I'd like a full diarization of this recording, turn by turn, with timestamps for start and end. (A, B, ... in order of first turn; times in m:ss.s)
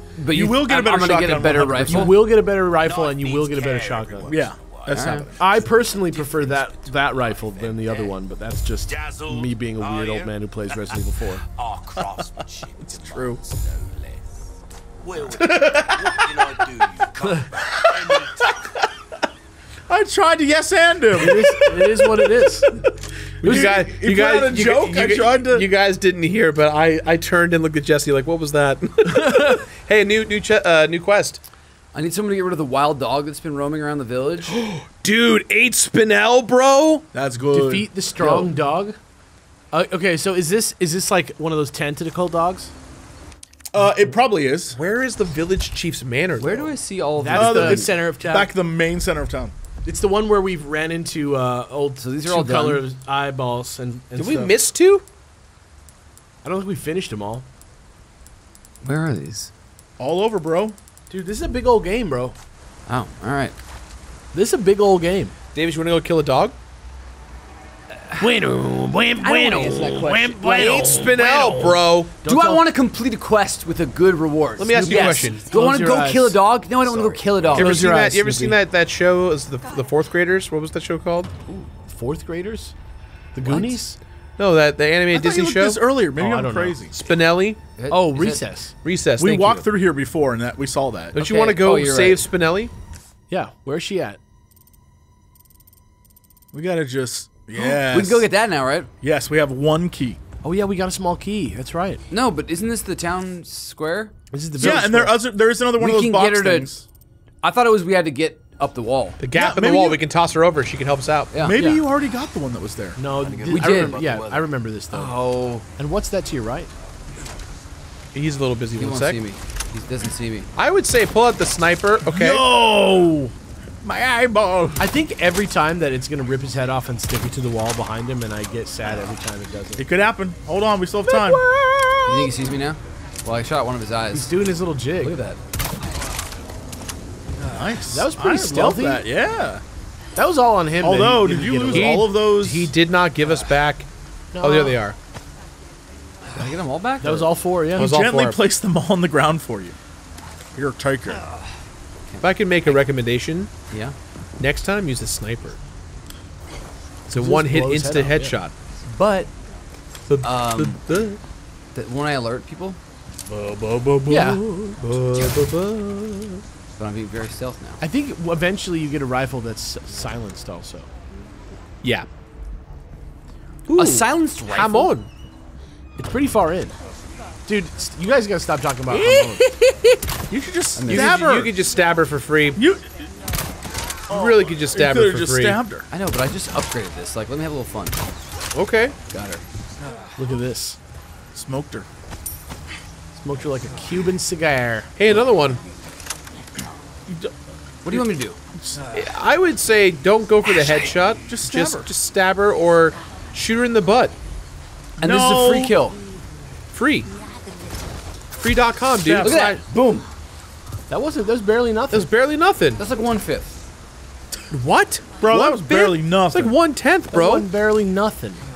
0:00.2-0:02.2 A
0:00.3-0:02.2 B
0:01.9-0:04.4 C
0:02.6-0:08.1 D
0:04.3-0:05.6 B
0:04.9-0:05.3 A
0:05.4-0:11.4 C
0:08.9-0:11.0 D
0:11.5-0:14.3 D
0:12.8-0:13.4 B
0:15.0-0:18.6 D
0:15.4-0:16.9 B
0:17.7-0:18.5 B
0:19.9-0:22.9 B
0:21.2-0:22.7 C
0:23.4-0:25.7 B
0:23.4-0:31.4 E
0:29.0-0:29.6 C
0:31.9-0:34.6 A
0:34.4-0:37.0 E
0:37.1-0:37.9 B
0:37.5-0:39.0 C
0:38.2-0:38.5 A
0:39.7-0:42.7 C
0:43.7-0:44.8 B
0:44.7-0:46.8 E
0:46.4-0:47.9 A
0:47.2-0:48.5 C
0:47.3-0:49.5 B
0:49.8-0:54.5 C
0:52.0-0:52.8 A
0:54.2-0:55.0 E
0:56.4-0:57.5 C
0:58.8-0:59.5 A
1:00.0-1:00.8 B
1:01.1-1:02.4 C
1:02.9-1:03.6 A
1:04.3-1:05.3 C
1:05.6-1:06.6 E
1:08.2-1:11.7 C
1:09.2-1:11.0 A
1:10.6-1:12.1 E
1:10.7-1:11.4 B
1:12.2-1:12.7 C
1:12.2-1:17.9 A
1:14.6-1:15.5 E
1:14.7-1:16.4 C
1:16.9-1:17.2 D
1:17.5-1:18.6 C
1:17.5-1:21.3 E
1:21.9-1:22.7 C
1:23.3-1:24.0 C
1:23.4-1:23.8 A
1:24.4-1:25.8 E
1:25.1-1:27.0 B
1:26.2-1:26.8 C
1:27.0-1:27.6 E
1:27.8-1:28.4 A
1:27.9-1:28.7 C
1:28.8-1:29.7 E
1:29.2-1:31.2 B
1:31.2-1:32.7 E
1:31.2-1:32.3 A
1:33.3-1:34.2 C
1:36.5-1:38.3 B
1:37.6-1:38.9 A
1:39.0-1:40.2 B
1:40.4-1:42.0 C
1:42.1-1:44.1 A
1:44.3-1:45.1 C
1:44.6-1:46.9 B
1:45.8-1:46.7 A
1:47.4-1:49.2 A
1:49.2-1:51.3 E
1:49.3-1:50.0 B
1:51.3-1:51.6 A
1:51.4-1:53.0 B
1:51.6-1:51.8 C
1:53.0-1:55.1 C
1:53.1-1:54.5 D
1:53.4-1:54.1 A
1:54.9-1:55.7 A
1:55.8-1:56.7 C
1:58.1-1:59.2 E
1:58.8-2:00.5 A
2:00.6-2:02.4 E
2:02.1-2:04.9 B
2:04.8-2:09.8 C
2:09.8-2:11.4 B
2:12.0-2:14.4 A
2:14.1-2:15.2 C
2:15.0-2:15.4 A
2:17.5-2:19.6 B
2:17.9-2:19.0 C
2:20.2-2:22.1 C
2:20.8-2:22.7 B
2:21.7-2:23.9 E
2:24.3-2:24.8 C
2:24.4-2:25.0 E
2:26.3-2:27.3 A
2:27.0-2:27.9 C
2:27.8-2:29.8 B
2:27.8-2:28.4 E
2:30.6-2:31.2 B
2:32.1-2:32.8 A
2:32.2-2:33.5 E
2:33.7-2:34.0 A
2:34.4-2:35.6 E
2:37.1-2:38.5 E
2:37.1-2:38.4 C
2:38.9-2:39.3 A
2:40.1-2:41.2 E
2:40.2-2:40.8 A
2:41.8-2:42.8 A
2:43.3-2:44.4 B
2:44.1-2:44.8 C
2:44.8-2:46.4 E
2:45.1-2:45.4 A
2:46.8-2:47.8 A
2:47.8-2:50.9 C
2:51.8-2:52.1 E
2:53.7-2:55.1 E
2:53.8-2:54.9 A
2:56.0-2:56.8 C
2:57.5-2:59.5 C
2:58.9-2:59.9 A
3:00.3-3:01.5 B
3:00.8-3:01.1 A
3:00.9-3:02.6 E
3:02.6-3:03.1 B
3:04.1-3:05.6 E
3:04.1-3:05.9 B
3:05.9-3:08.0 A
3:08.6-3:09.0 E
3:09.1-3:09.4 A
3:10.2-3:10.8 C
3:11.3-3:11.9 B
3:13.2-3:14.9 C
3:15.0-3:15.6 E
3:17.1-3:17.4 B
3:17.8-3:18.4 A
3:17.9-3:18.8 B
3:18.9-3:24.2 E
3:21.3-3:21.9 B
3:25.0-3:25.8 B
3:25.0-3:26.0 A
3:26.7-3:27.1 E
3:28.4-3:29.6 E
3:29.2-3:30.1 A
3:30.9-3:32.1 C
3:31.9-3:32.8 E
3:32.8-3:33.6 A
3:34.5-3:37.5 E
3:35.2-3:36.6 B
3:37.1-3:38.4 C